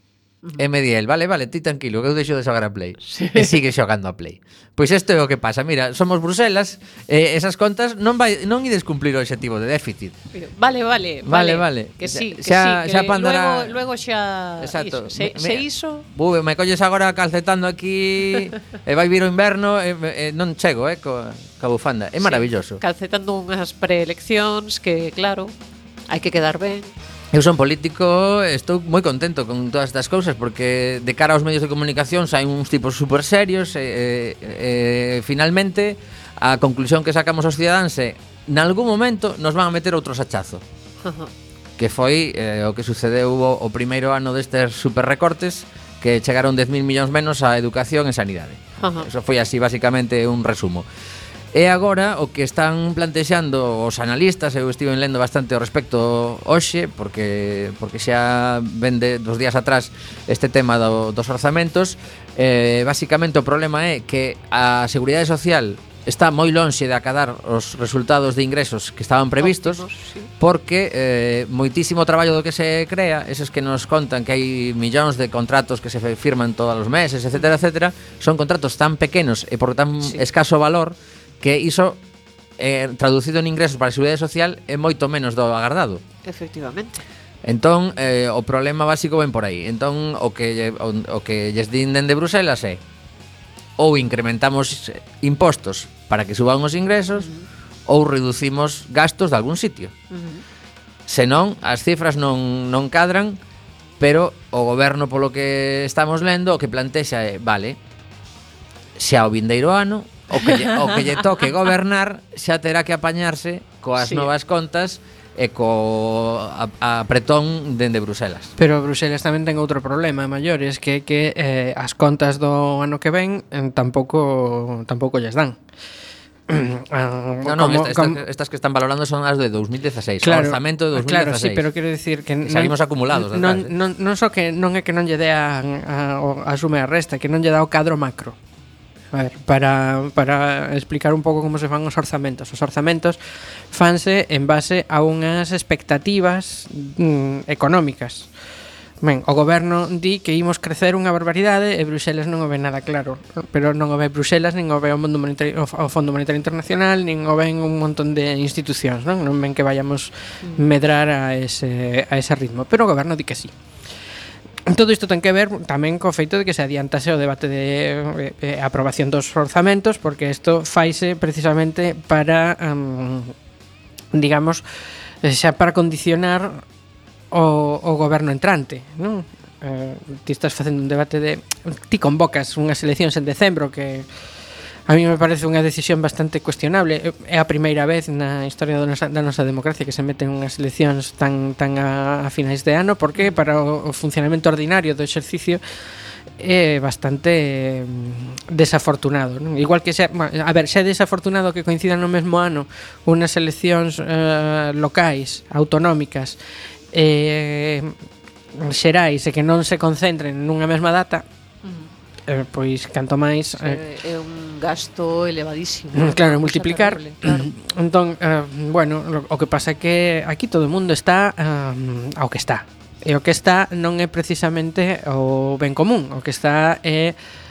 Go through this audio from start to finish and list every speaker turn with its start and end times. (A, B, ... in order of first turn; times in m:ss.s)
0:00.6-0:10.2 A
0:03.1-0:03.6 B
0:10.4-0:16.1 B
0:11.2-0:13.8 A
0:14.6-0:22.8 A
0:22.2-0:25.5 B
0:26.1-0:26.9 B
0:27.3-0:40.6 A
0:41.0-0:41.3 B
0:41.8-0:50.9 A
0:48.8-0:49.1 B
0:51.5-1:09.8 A
1:09.4-1:10.3 B
1:10.4-1:22.0 A
1:22.6-1:26.0 A
1:26.2-1:27.0 B
1:27.4-1:32.8 A
1:33.8-1:37.3 A
1:37.2-1:37.4 B
1:37.9-1:39.9 A
1:40.1-1:40.4 B
1:41.1-1:43.4 A
1:44.0-1:47.8 A
1:49.0-1:58.5 A
1:50.4-1:51.2 B
1:54.0-1:54.3 B
1:58.6-2:05.6 C
2:06.5-2:08.2 C
2:07.4-2:11.7 A
2:10.2-2:18.4 C
2:12.4-2:13.7 A
2:19.1-2:23.2 C
2:23.7-2:28.3 C
2:29.0-2:43.5 C
2:44.7-2:53.3 C
2:54.1-2:54.6 C
2:55.2-2:56.6 C
2:57.3-3:04.1 C
3:04.9-3:15.6 C
3:16.4-3:26.4 C
3:26.9-3:28.0 C
3:28.6-3:31.2 C
3:31.6-3:31.9 B
3:32.3-3:33.8 C
3:33.6-3:37.5 B
3:36.0-3:47.2 C